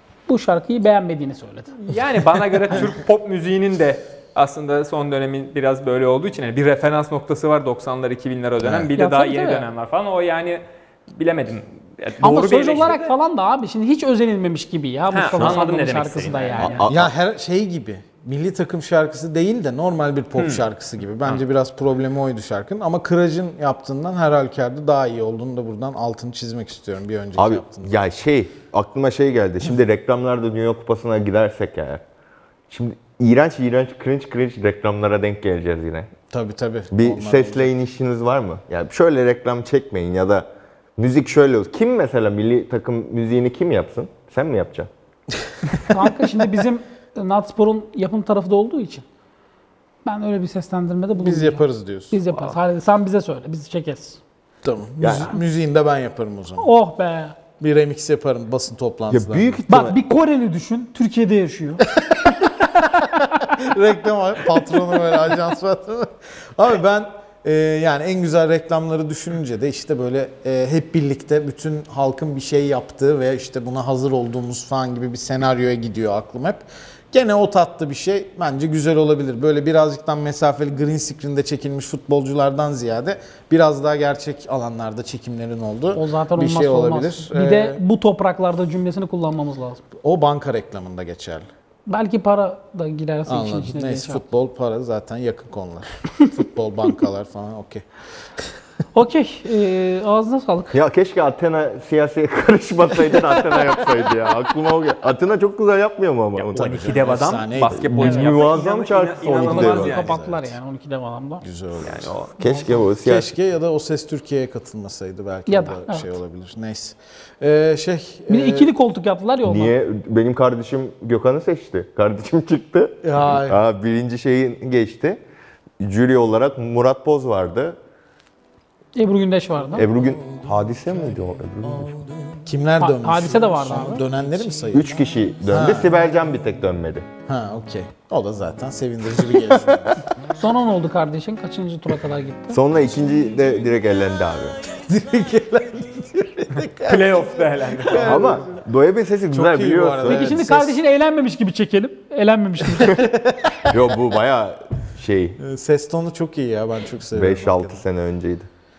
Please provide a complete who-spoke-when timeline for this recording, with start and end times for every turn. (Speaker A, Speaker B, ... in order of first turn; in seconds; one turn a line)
Speaker A: 0.3-1.8
Speaker B: 1.8-13.1
Speaker A: 8.9-9.7
Speaker A: 12.2-16.8
Speaker B: 15.1-16.9
Speaker C: 16.6-17.1
Speaker D: 16.9-27.9
Speaker B: 20.4-20.6
Speaker C: 27.4-32.0
Speaker C: 32.7-36.1
Speaker D: 36.3-37.7
Speaker C: 36.9-44.9
Speaker A: 45.9-49.0
Speaker A: 50.0-54.2
Speaker D: 51.2-52.1
Speaker D: 54.6-56.7
Speaker C: 55.0-55.3
Speaker A: 56.6-57.4
Speaker D: 57.6-59.7
Speaker C: 59.1-60.0
Speaker A: 59.7-61.8
Speaker D: 62.1-87.8
Speaker A: 85.9-89.8
Speaker D: 90.0-91.5
Speaker A: 91.9-94.2
Speaker D: 93.3-97.8
Speaker A: 98.9-100.8
Speaker C: 100.7-107.0
Speaker B: 106.3-110.2
Speaker D: 106.5-108.3
Speaker C: 107.8-109.9
Speaker A: 108.0-108.4
Speaker A: 109.3-111.4
Speaker D: 109.8-110.5
Speaker D: 111.4-118.7
Speaker B: 111.8-112.3
Speaker C: 112.4-113.3
Speaker A: 115.5-116.1
Speaker A: 118.3-119.7
Speaker C: 119.4-125.2
Speaker D: 123.0-123.6
Speaker C: 125.8-127.8
Speaker A: 128.9-129.9
Speaker C: 129.8-132.0
Speaker D: 132.4-134.9
Speaker A: 132.8-134.0
Speaker C: 134.7-137.1
Speaker D: 135.4-135.9
Speaker D: 137.3-140.0
Speaker A: 140.3-142.6
Speaker C: 142.5-144.6
Speaker D: 144.8-148.6
Speaker B: 146.8-148.3
Speaker C: 148.0-150.3
Speaker D: 149.3-150.8
Speaker A: 150.0-153.1
Speaker D: 152.8-153.9
Speaker C: 153.7-155.4
Speaker D: 155.4-157.8
Speaker C: 157.2-158.5